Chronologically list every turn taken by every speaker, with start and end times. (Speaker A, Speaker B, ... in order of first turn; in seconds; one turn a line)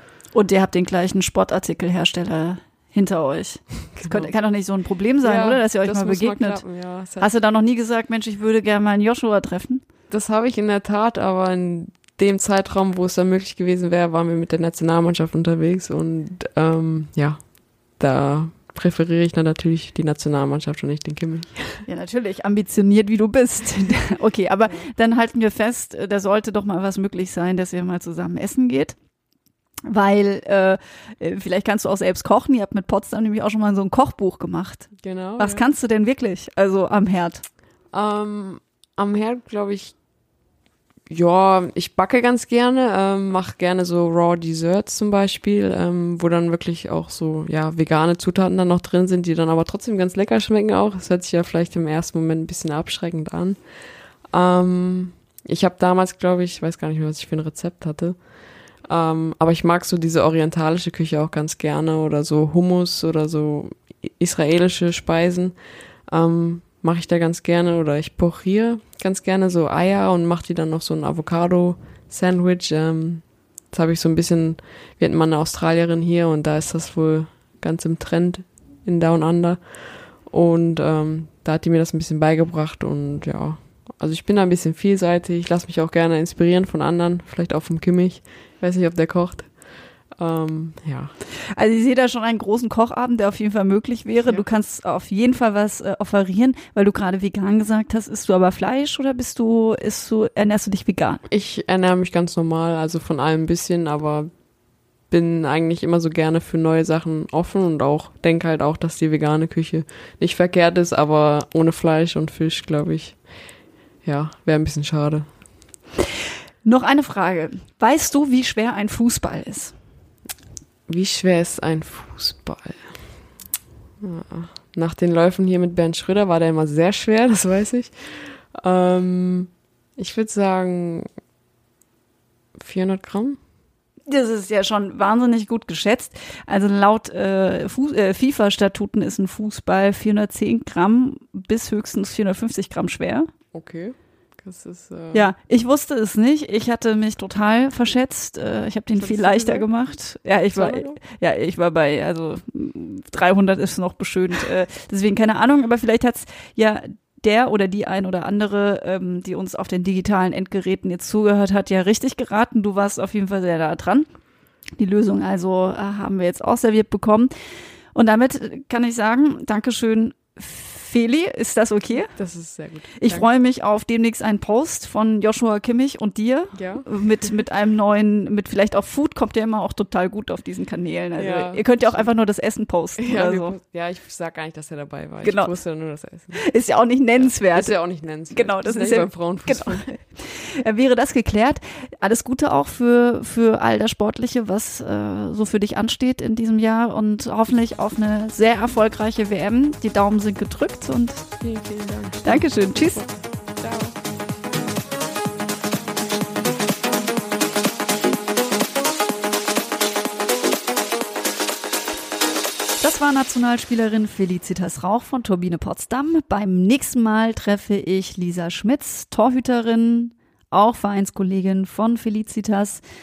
Speaker A: 0.3-6.6
Speaker B: 4.0-4.3
Speaker B: 5.2-7.3
Speaker A: 7.2-9.8
Speaker B: 10.1-17.4
Speaker B: 18.0-21.8
Speaker A: 21.9-28.9
Speaker A: 29.9-37.4
Speaker B: 35.0-35.6
Speaker B: 37.9-39.9
Speaker B: 41.1-53.6
Speaker B: 54.3-58.1
Speaker B: 58.9-65.5
Speaker B: 66.1-79.6
Speaker B: 80.3-89.5
Speaker B: 90.2-91.1
Speaker A: 91.5-101.2
Speaker B: 101.3-104.3
Speaker B: 105.1-113.2
Speaker B: 114.0-115.3
Speaker A: 116.6-119.7
Speaker B: 120.9-122.8
Speaker B: 124.0-127.9
Speaker B: 128.5-131.1
Speaker B: 132.6-133.4
Speaker A: 134.1-143.3
Speaker B: 143.5-145.3
Speaker A: 145.1-164.1
Speaker B: 149.0-149.7
Speaker B: 150.5-151.0
Speaker A: 164.8-167.3
Speaker A: 167.9-172.1
Speaker B: 172.1-173.3
Speaker A: 173.0-183.5
Speaker B: 176.5-176.9
Speaker B: 181.2-182.1
Speaker B: 183.0-186.4
Speaker A: 185.2-185.5
Speaker A: 186.3-187.8
Speaker B: 187.2-189.9
Speaker A: 188.3-201.3
Speaker B: 201.4-203.9
Speaker A: 202.2-203.0
Speaker A: 212.8-222.8